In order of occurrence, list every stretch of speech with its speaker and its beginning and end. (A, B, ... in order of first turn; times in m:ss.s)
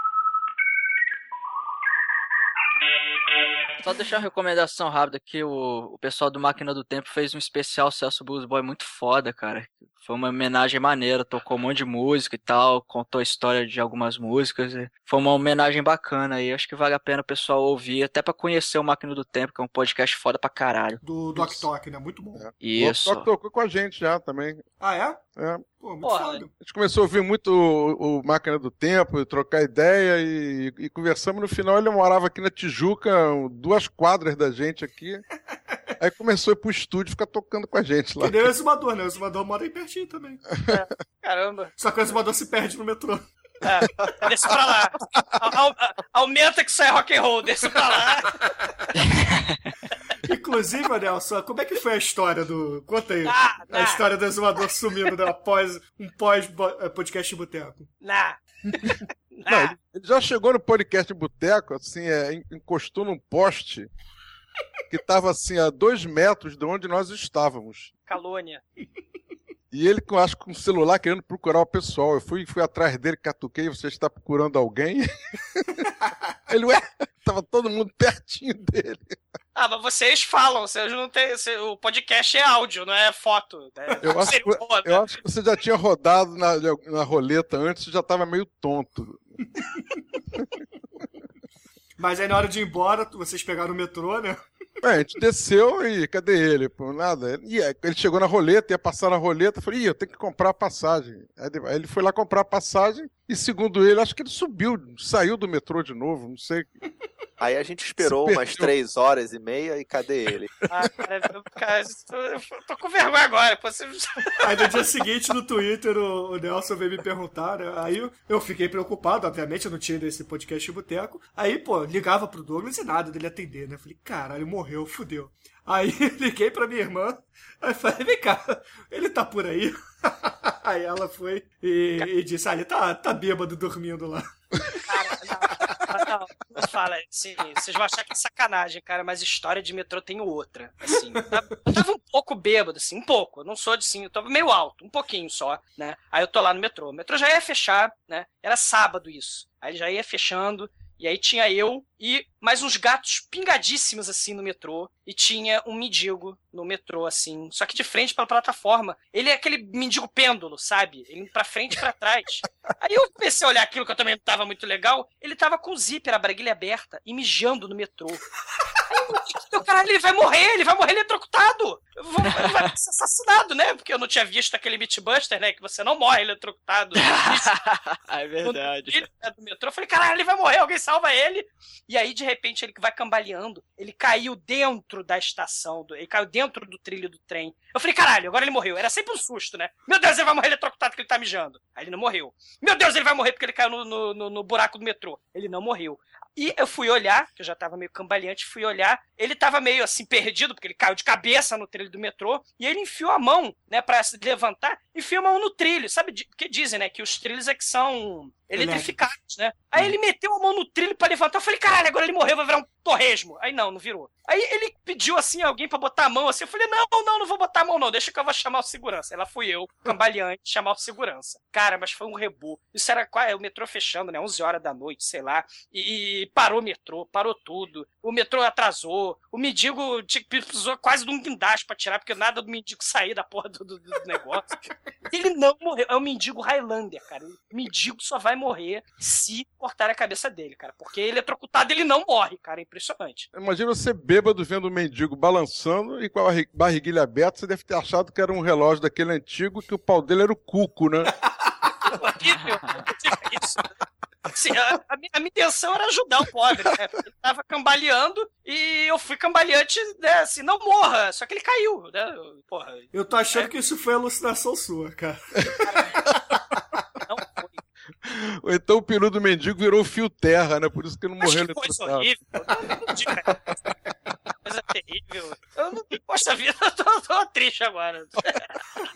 0:03.8-0:21.0 A
0:21.0-0:22.5 B
0:21.4-0:21.6 C
0:22.4-0:24.6 C
0:22.6-0:23.3 A
0:24.8-0:25.2 B
0:25.4-0:25.6 C
0:25.7-0:26.5 B
0:26.0-0:26.4 D
0:26.6-0:35.2 C
0:36.0-0:38.5 C
0:38.2-0:40.4 B
0:40.7-0:41.7 D
0:41.8-0:43.3 B
0:43.6-0:48.5 D
0:50.2-0:57.9 B
0:53.2-0:54.0 D
0:58.0-0:59.7 D
0:59.5-1:03.9 C
1:04.9-1:07.9 C
1:08.1-1:08.6 D
1:09.7-1:15.9 C
1:16.5-1:19.2 C
1:19.5-1:25.2 D
1:24.0-1:29.3 C
1:32.0-1:34.4 B
1:34.8-1:46.7 C
1:47.4-1:50.5 E
1:48.0-1:48.7 C
1:50.7-1:54.8 D
1:54.4-2:14.8 B
2:14.8-2:48.2 D
2:20.9-2:21.2 B
2:48.9-2:57.5 D
2:57.0-2:59.0 A
2:58.4-3:54.5 D
3:28.5-3:29.0 B
3:55.1-4:03.3 D
4:03.3-4:11.1 C
4:11.8-4:13.7 D
4:14.3-4:23.5 D
4:22.9-4:26.2 B
4:25.6-4:26.0 D
4:27.1-4:27.6 D
4:28.0-4:32.1 C
4:31.2-4:33.4 D
4:34.4-4:38.8 D